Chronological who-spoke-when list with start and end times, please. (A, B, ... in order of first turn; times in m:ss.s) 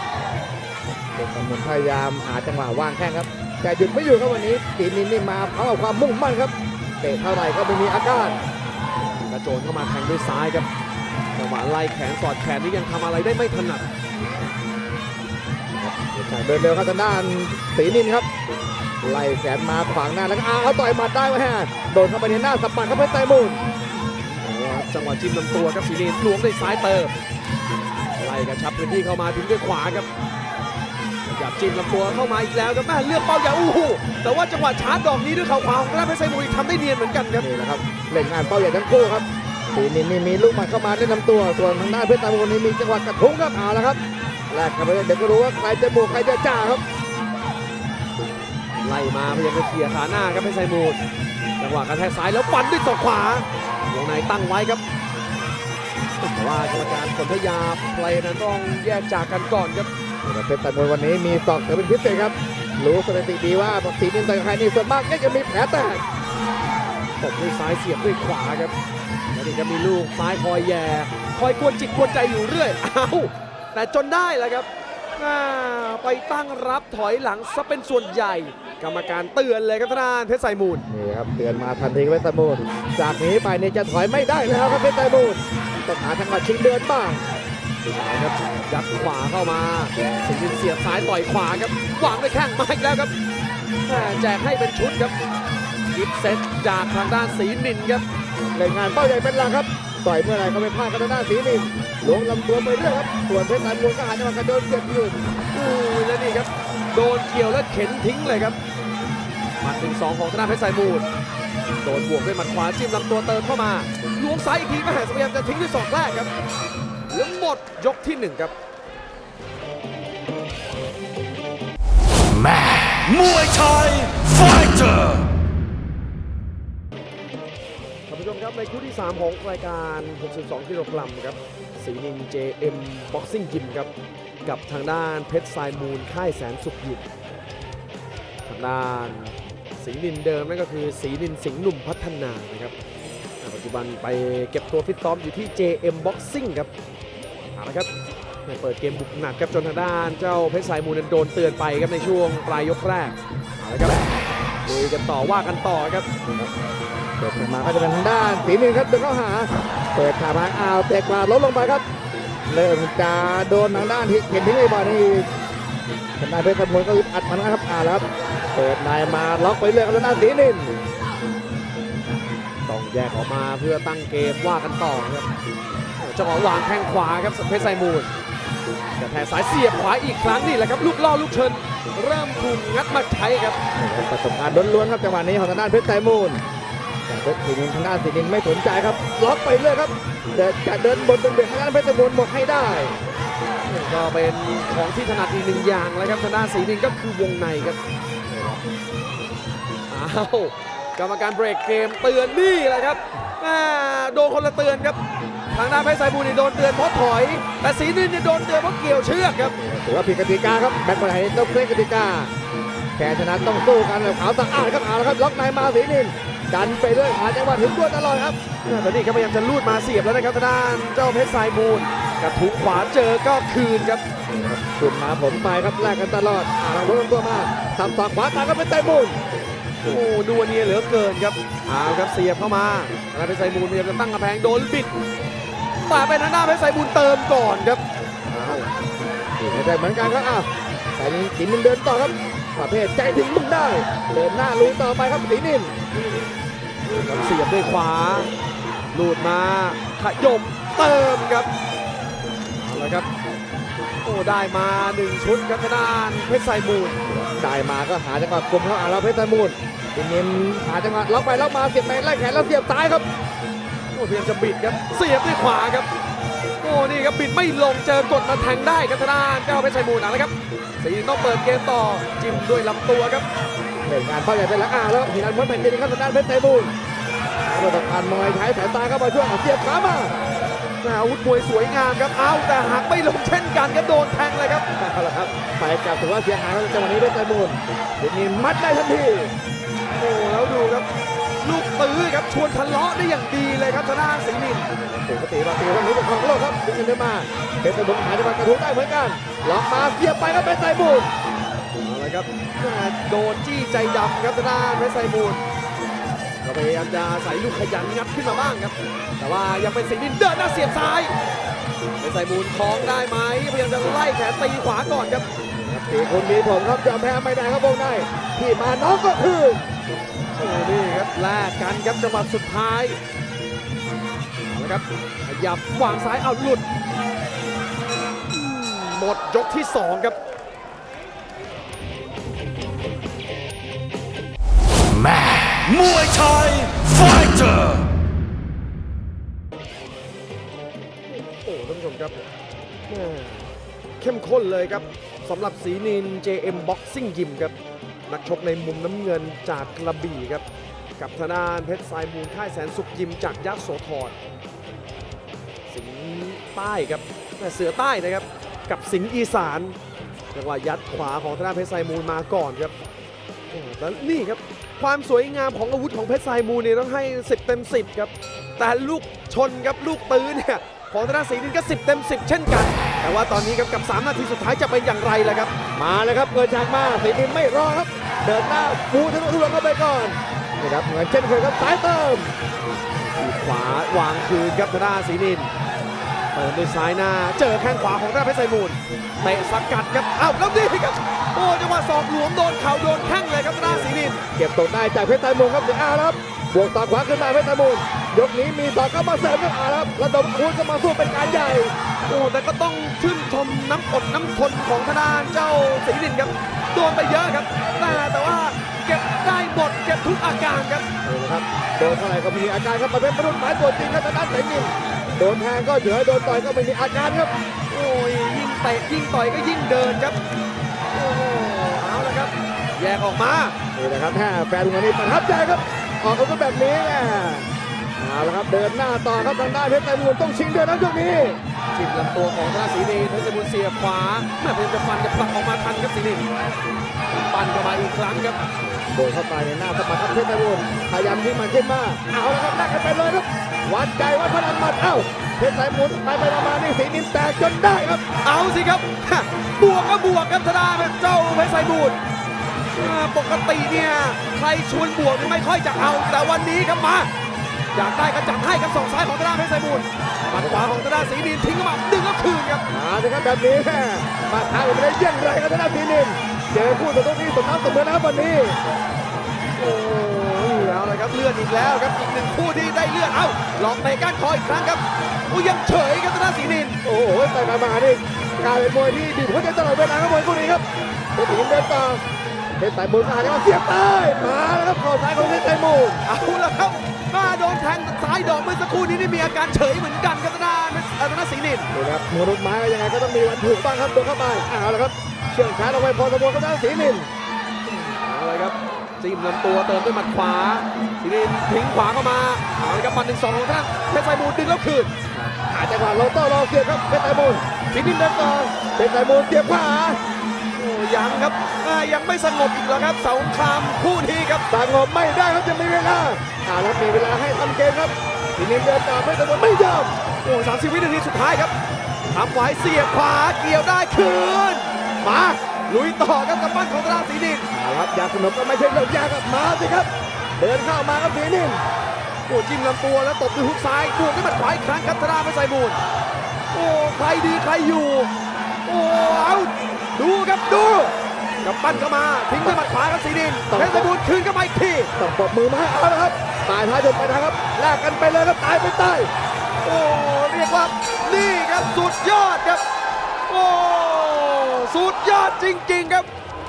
0:01.2-0:08.4 A
0:09.2-0:10.7 B
0:11.4-0:14.0 B
0:15.8-0:18.3 A
0:19.0-0:23.6 A
0:24.0-0:27.1 B
0:28.2-0:30.1 B
0:31.3-0:37.4 B
0:37.4-0:46.8 A
0:48.8-0:51.0 B
0:51.6-0:54.8 B
0:56.2-0:59.9 B
1:00.2-1:06.0 A
1:07.2-1:08.8 B
1:09.3-1:20.8 B
1:20.9-1:27.2 A
1:27.9-1:33.1 B
1:33.8-1:35.2 B
1:35.9-1:38.0 B
1:38.5-1:45.2 A
1:45.5-1:48.6 B
1:49.6-1:51.1 B
1:51.8-1:56.3 B
1:57.1-1:58.5 B
2:02.3-2:05.3 C
2:08.1-2:13.9 B
2:14.4-2:17.1 B
2:18.5-2:22.8 B
2:23.4-2:26.7 B
2:27.6-2:27.9 B
2:28.4-2:34.0 B
2:34.6-2:36.1 B
2:37.2-2:41.8 A
2:42.5-2:45.3 A
2:46.2-2:50.8 A
2:52.7-2:55.3 B
2:56.0-2:58.1 B
2:59.0-3:03.6 B
3:03.8-3:06.4 A
3:07.1-3:12.9 A
3:13.7-3:17.8 B
3:18.3-3:18.6 A
3:19.9-3:25.0 B
3:25.5-3:29.6 B
3:29.6-3:32.3 A
3:33.0-3:38.4 A
3:38.6-3:44.0 B
3:44.3-3:49.2 A
3:49.8-3:55.0 B
3:55.8-3:57.8 B
3:58.3-3:58.6 B
3:59.4-4:05.7 A
4:06.8-4:08.3 B
4:08.9-4:11.5 B
4:12.6-4:13.1 B
4:14.0-4:17.0 B
4:17.0-4:23.1 A
4:23.9-4:25.9 B
4:26.6-4:33.3 B
4:33.9-4:36.7 A
4:37.4-4:40.2 A
4:40.8-4:44.7 B
4:44.8-4:49.3 A
4:50.0-4:50.9 B
4:51.4-4:54.8 B
4:54.8-5:01.1 A
5:01.8-5:05.4 B
5:06.4-5:11.2 B
5:12.0-5:15.3 B
5:15.5-5:19.7 A
5:20.4-5:23.0 B
5:24.4-5:26.7 B
5:28.3-5:30.2 B
5:35.0-5:37.9 C
5:41.1-5:42.3 B
5:42.9-5:47.6 B
5:48.1-5:50.4 B
5:51.0-5:54.2 B
5:55.7-5:59.8 B
6:00.3-6:02.8 B
6:03.5-6:15.5 B
6:15.8-6:22.3 A
6:23.0-6:25.5 B
6:26.3-6:34.2 B
6:33.6-6:41.7 A
6:42.0-6:50.9 B
6:51.0-6:57.3 A
6:57.7-7:00.2 B
7:00.9-7:03.6 B
7:03.7-7:11.4 A
7:11.7-7:16.3 B
7:17.1-7:18.4 B
7:18.6-7:28.0 A
7:28.2-7:32.0 B
7:32.8-7:37.1 B
7:37.7-7:42.6 B
7:40.3-7:40.6 A
7:42.7-7:48.6 A
7:49.6-7:56.8 B
7:56.8-8:02.0 A
8:02.6-8:06.0 A
8:06.0-8:11.7 B
8:11.7-8:17.1 A
8:17.6-8:25.2 B
8:25.4-8:30.0 A
8:27.8-8:28.2 B
8:30.5-8:34.5 B
8:34.5-8:39.9 A
8:40.2-8:41.6 B
8:42.1-8:47.5 B
8:47.5-8:51.6 A
8:52.3-8:55.8 B
8:56.5-8:58.1 B
8:58.7-9:04.9 B
9:03.5-9:03.9 A
9:05.0-9:09.1 A
9:09.6-9:12.6 B
9:13.3-9:16.1 B